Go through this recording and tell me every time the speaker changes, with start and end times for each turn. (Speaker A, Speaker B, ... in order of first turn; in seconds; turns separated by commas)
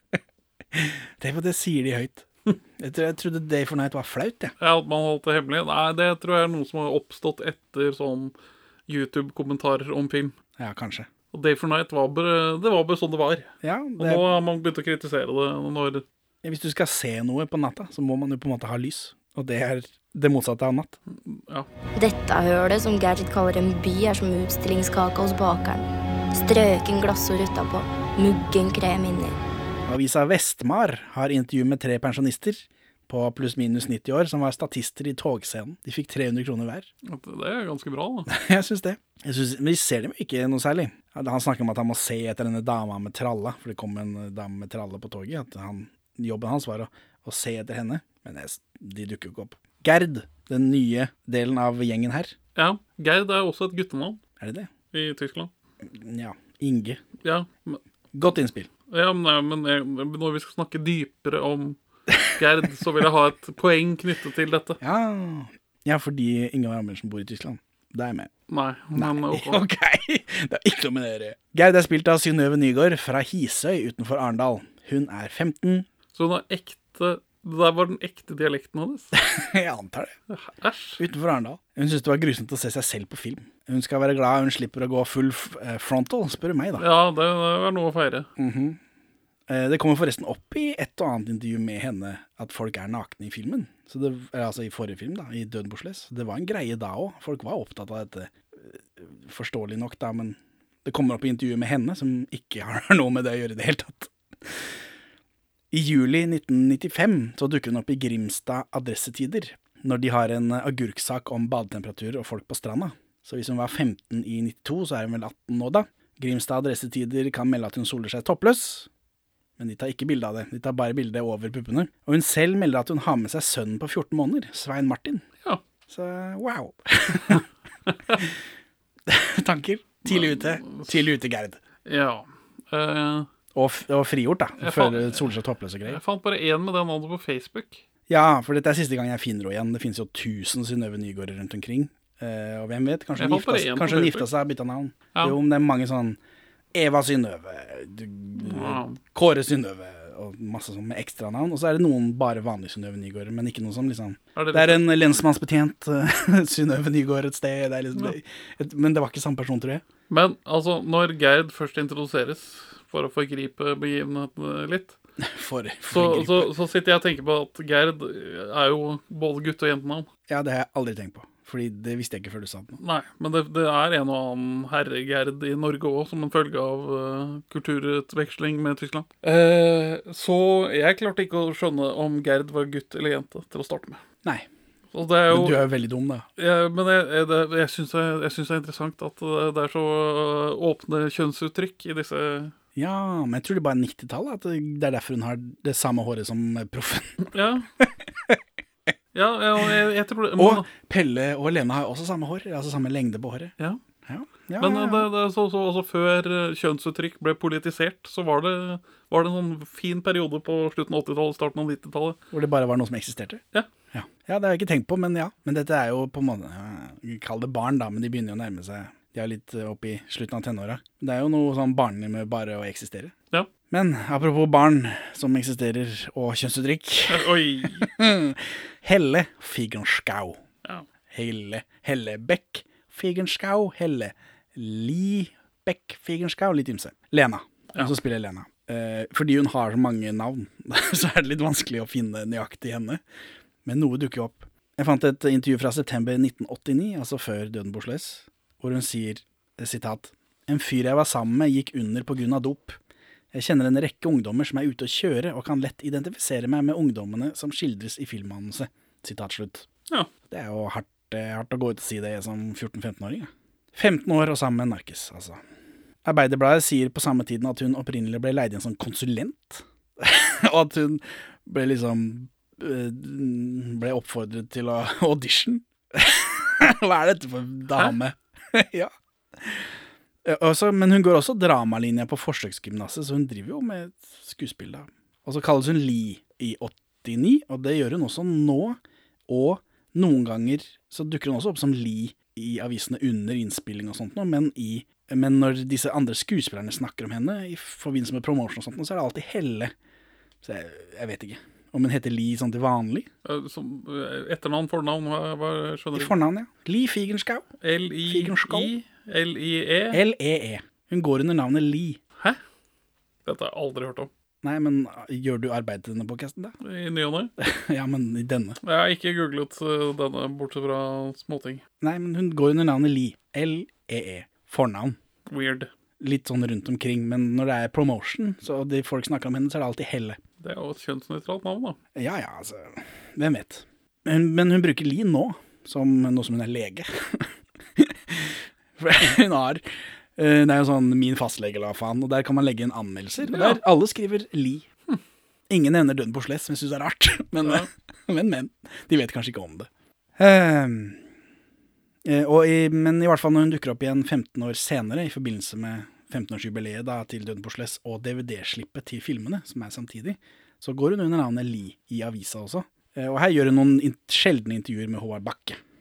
Speaker A: 0.7-4.5, Speaker B: 4.6-8.3, Speaker B: 8.9-10.3, Speaker A: 10.6-11.1, Speaker B: 11.3-16.0, Speaker A: 13.6-14.2, Speaker A: 16.4-21.0, Speaker B: 21.2-21.7, Speaker C: 22.0-29.4, Speaker A: 29.9-36.9, Speaker B: 37.1-38.3, Speaker A: 38.3-52.4, Speaker B: 52.6-54.2, Speaker A: 54.4-54.7, Speaker B: 54.9-55.5, Speaker A: 55.8-57.0, Speaker B: 57.2-57.8, Speaker A: 58.1-58.7, Speaker B: 58.9-61.8, Speaker B: 62.4-64.8, Speaker A: 64.8-68.3, Speaker B: 68.5-69.6, Speaker A: 69.0-75.9, Speaker B: 76.1-79.1, Speaker A: 79.1-80.2, Speaker B: 80.3-81.0, Speaker A: 81.0-86.9, Speaker B: 86.8-88.3, Speaker A: 88.4-88.8, Speaker A: 89.5-104.6, Speaker A: 105.7-118.9, Speaker A: 119.6-125.2, Speaker A: 125.9-127.4, Speaker B: 127.9-128.2, Speaker A: 129.1-131.6, Speaker B: 130.1-131.1, Speaker B: 131.9-133.3, Speaker A: 133.6-136.0, Speaker B: 134.6-135.3, Speaker B: 135.9-137.8, Speaker A: 138.1-146.2, Speaker B: 143.2-144.3, Speaker A: 146.7-159.8, Speaker B: 148.4-149.0, Speaker B: 154.4-154.9, Speaker B: 160.1-165.0, Speaker A: 165.2-166.5, Speaker B: 165.9-170.1, Speaker A: 170.3-172.8, Speaker B: 172.8-184.0, Speaker B: 184.9-185.7, Speaker A: 185.3-186.3, Speaker B: 186.4-192.5, Speaker A: 192.8-197.3, Speaker B: 197.3-197.7, Speaker A: 197.8-198.4, Speaker B: 199.1-200.7, Speaker A: 200.4-203.5, Speaker A: 204.1-205.1, Speaker B: 204.6-212.2, Speaker A: 212.3-223.1, Speaker A: 223.7-230.4, Speaker B: 227.1-227.9, Speaker A: 231.1-243.0, Speaker A: 243.7-252.8, Speaker A: 253.3-259.7, Speaker A: 260.3-265.4, Speaker A: 266.1-279.7, Speaker A: 280.2-299.7, Speaker A: 300.4-303.1, Speaker B: 303.2-306.1, Speaker A: 305.9-307.5, Speaker B: 307.6-310.0, Speaker A: 308.1-308.7, Speaker A: 309.9-312.0, Speaker B: 313.3-314.1, Speaker A: 314.4-316.5, Speaker B: 316.6-317.3, Speaker A: 317.4-318.6, Speaker B: 318.6-321.6, Speaker A: 321.8-325.0, Speaker B: 325.3-325.7, Speaker A: 326.0-330.2, Speaker B: 330.4-331.8, Speaker A: 332.0-339.6, Speaker A: 340.2-344.7, Speaker B: 343.2-343.6, Speaker A: 345.5-351.0, Speaker B: 347.4-347.7, Speaker A: 352.1-365.6